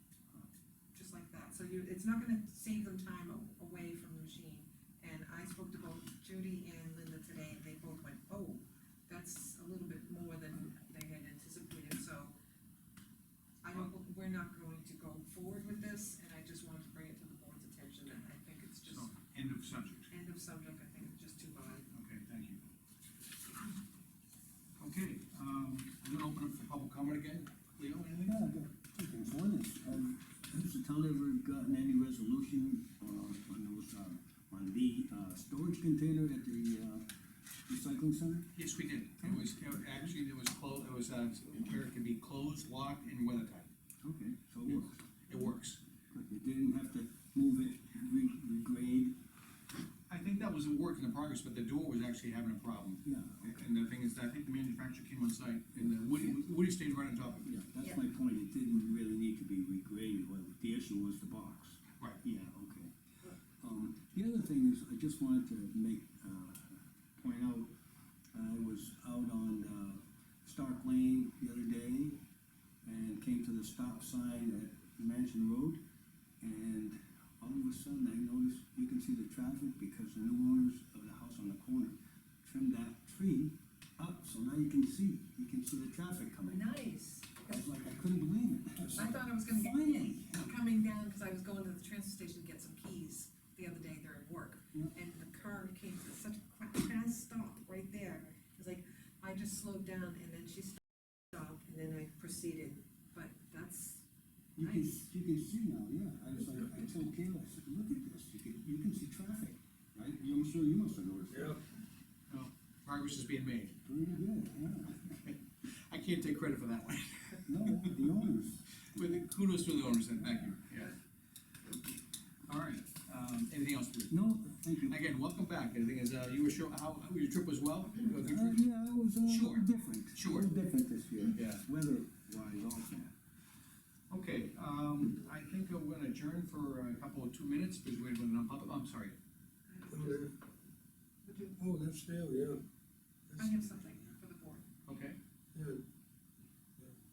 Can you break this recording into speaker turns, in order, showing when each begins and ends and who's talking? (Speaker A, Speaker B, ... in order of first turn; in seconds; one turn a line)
Speaker A: 0.3-12.3
Speaker A: 13.6-19.2
Speaker B: 18.8-20.1
Speaker A: 20.1-21.9
Speaker B: 21.9-22.6
Speaker B: 24.8-28.4
Speaker C: 28.2-37.0
Speaker C: 37.7-38.5
Speaker B: 38.5-43.7
Speaker C: 39.2-40.1
Speaker C: 44.0-45.0
Speaker B: 44.6-45.8
Speaker C: 46.1-49.1
Speaker B: 50.1-57.6
Speaker C: 53.0-53.6
Speaker C: 57.5-62.9
Speaker C: 63.6-67.7
Speaker C: 68.3-72.2
Speaker C: 72.8-75.8
Speaker C: 76.4-86.7
Speaker A: 86.5-87.4
Speaker C: 87.4-90.5
Speaker A: 88.9-104.0
Speaker C: 104.5-111.5
Speaker A: 104.6-105.0
Speaker D: 111.3-111.6
Speaker B: 112.3-113.8
Speaker C: 113.8-115.1
Speaker B: 114.9-118.1
Speaker C: 117.5-119.0
Speaker B: 118.9-121.0
Speaker C: 120.2-120.5
Speaker B: 122.5-124.2
Speaker C: 124.1-125.0
Speaker B: 124.8-128.6
Speaker C: 128.2-133.1
Speaker B: 129.2-130.5
Speaker B: 131.3-131.6
Speaker B: 134.1-139.2
Speaker A: 139.7-140.3
Speaker D: 139.9-140.3
Speaker A: 141.2-141.6
Speaker D: 141.6-142.6
Speaker D: 143.3-143.7
Speaker A: 143.3-144.7
Speaker B: 144.8-145.2
Speaker D: 145.5-145.8